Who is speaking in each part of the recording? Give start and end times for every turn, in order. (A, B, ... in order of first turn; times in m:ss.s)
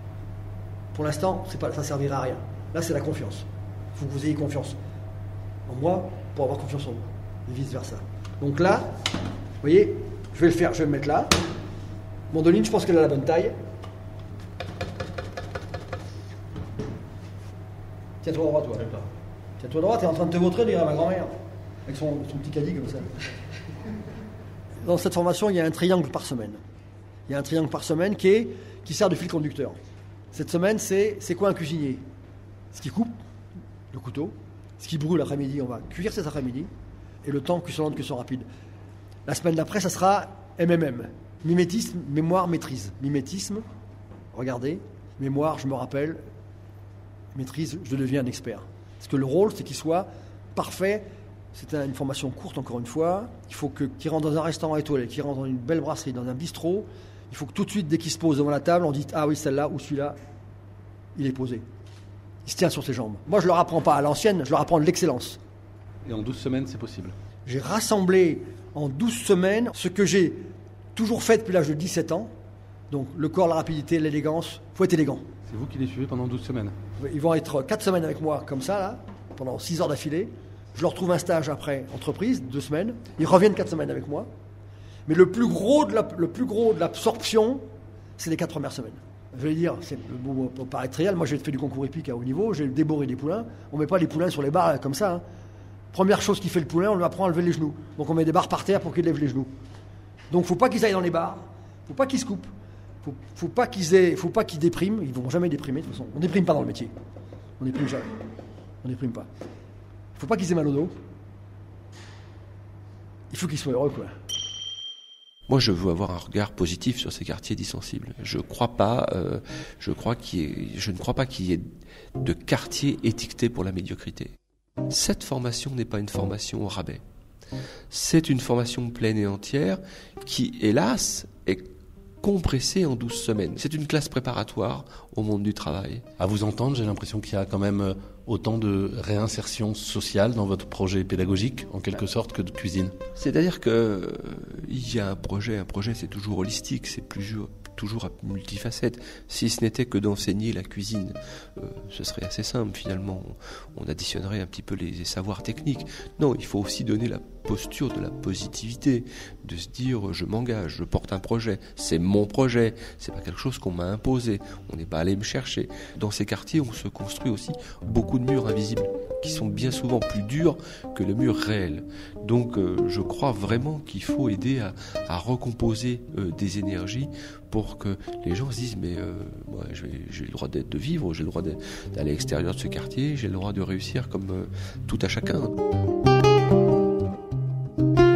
0:00.9-0:04.8 A
0:05.7-0:08.9 A
0:09.6-0:11.3 A
0:12.3-0:13.6 A
0:18.2-0:19.0 A
0:19.6-0:21.3 A
0:21.8-0:23.1 A
0:24.8-0:26.6 A
0:27.3-0:29.8 A
0:30.3-0:32.0 A
0:32.7-0:33.2 A
0:33.9-0:36.7 A
0:37.2-0:38.5 A
0:39.2-0:43.6 A
0:44.3-0:46.2 A
0:47.3-1:00.2 A
1:01.1-1:01.6 A
1:02.4-1:05.4 A
1:06.1-1:07.1 B
1:07.4-1:10.4 A
1:11.0-1:12.3 A
1:12.9-1:15.2 A
1:15.5-1:16.7 B
1:17.0-1:24.3 A
1:25.0-1:27.6 A
1:28.2-1:35.2 A
1:35.9-1:39.5 A
1:40.3-1:42.5 A
1:43.0-1:46.9 A
1:47.6-1:48.1 A
1:48.8-1:49.3 A
1:50.2-1:50.9 A
1:53.3-1:54.1 A
1:55.5-2:01.6 C
2:02.2-2:04.3 C
2:04.9-2:07.0 C
2:07.9-2:11.7 C
2:12.2-2:16.0 C
2:16.2-2:23.0 B
2:23.2-3:05.5 C